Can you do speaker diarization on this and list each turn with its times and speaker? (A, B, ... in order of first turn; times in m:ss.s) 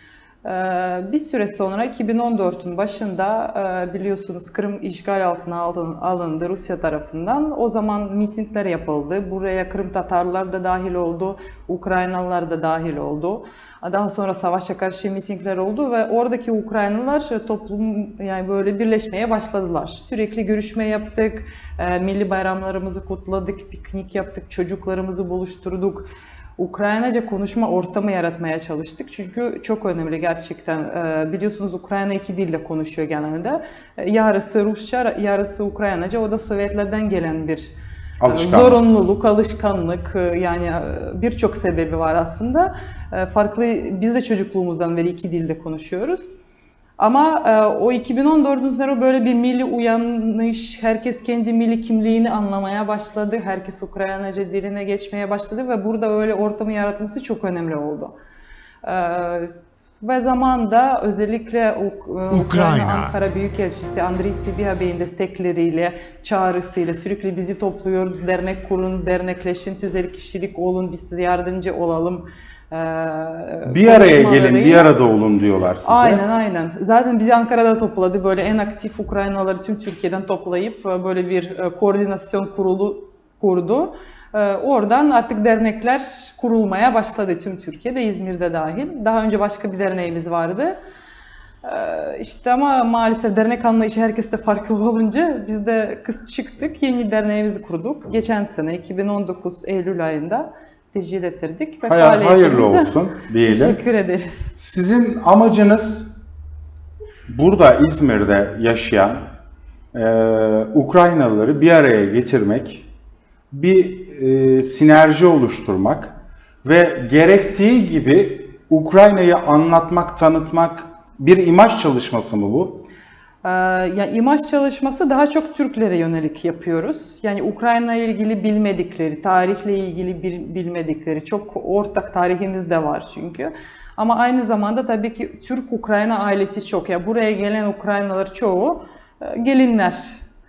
0:00.4-0:37.7 A
0:38.2-0:38.8 B
0:38.3-0:46.2 A
0:47.0-0:58.2 A
0:58.8-1:15.0 A
1:13.6-1:16.2 B
1:15.8-1:30.8 A
1:31.6-1:44.5 A
1:41.9-1:43.8 B
1:44.6-1:46.1 B
1:47.3-1:49.2 B
1:49.9-1:52.9 B
1:53.5-2:02.8 B
2:03.4-2:20.2 A